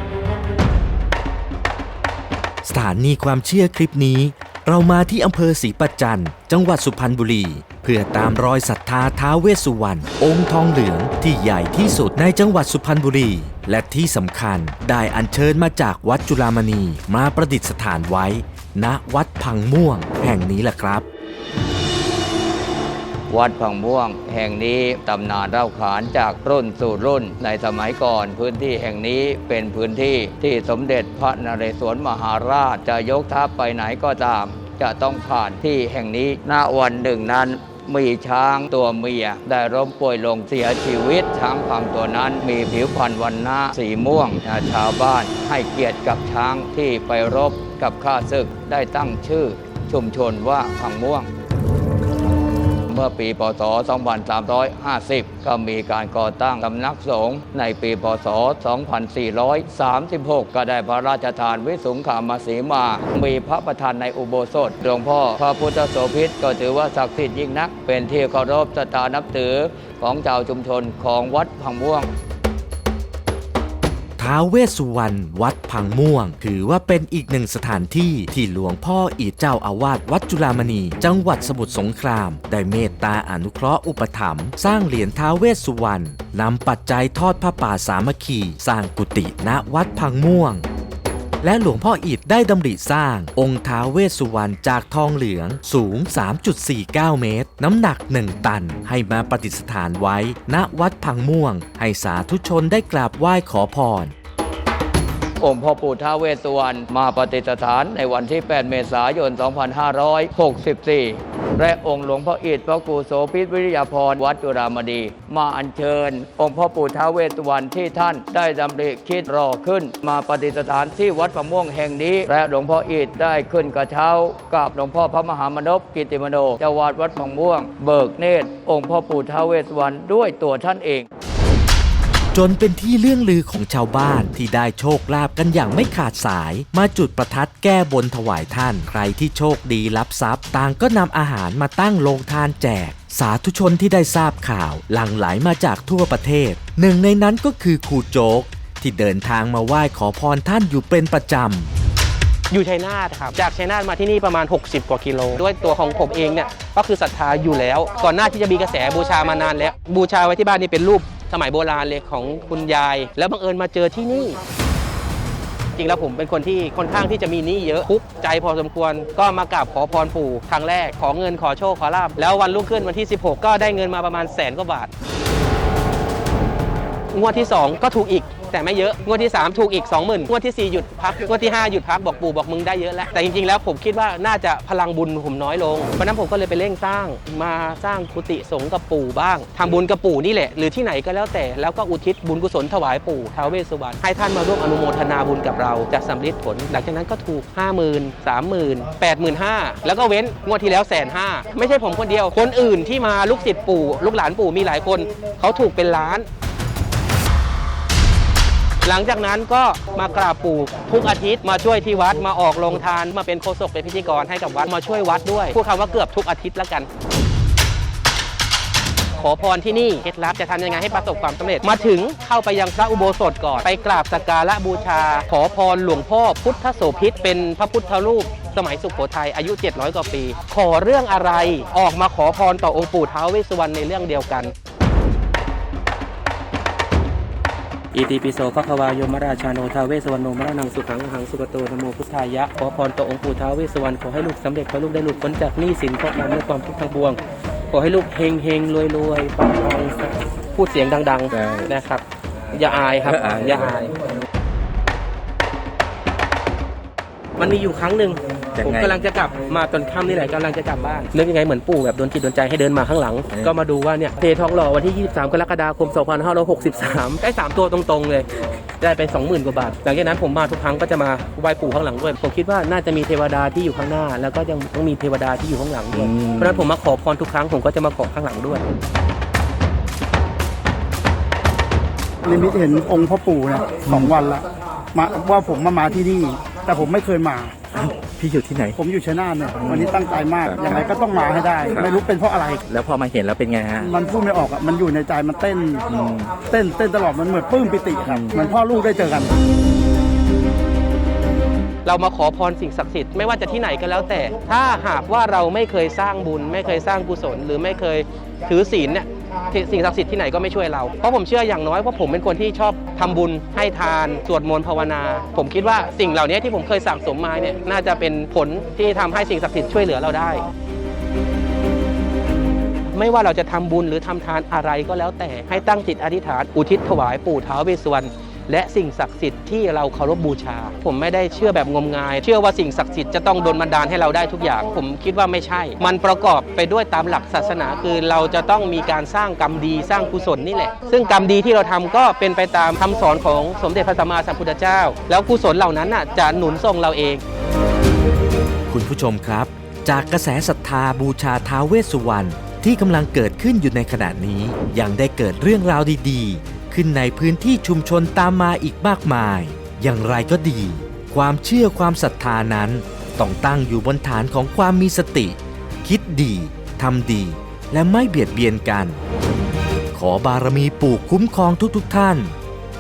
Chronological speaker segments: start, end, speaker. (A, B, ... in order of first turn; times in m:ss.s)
0:02.6-0:21.0 A
0:23.3-0:51.3 B
0:52.9-1:12.1 B
1:14.2-1:30.6 A
1:31.4-1:44.1 A
1:45.4-2:11.1 B
2:12.3-2:31.7 A
2:32.5-2:44.4 C
2:45.8-2:54.9 C
2:57.1-3:26.3 C
3:28.8-3:36.9 C
3:39.2-3:54.5 C
3:57.9-4:07.2 C
4:07.7-4:13.9 C
4:11.3-4:11.7 D
4:13.1-4:13.7 D
4:17.4-4:28.3 C
4:18.6-4:19.0 D
4:28.8-4:38.6 C
4:36.1-4:36.6 D
4:42.2-4:47.6 E
4:43.8-4:44.1 D
4:47.7-4:48.8 D
4:48.8-4:52.6 E
4:49.6-4:49.9 D
4:50.4-4:50.8 D
4:52.7-4:53.9 D
4:53.8-4:55.8 E
4:55.9-4:56.4 D
4:56.4-4:59.4 E
4:58.1-4:58.4 D
5:01.8-5:20.4 C
5:22.9-5:47.2 C
5:48.7-6:09.0 A
6:09.9-6:12.4 A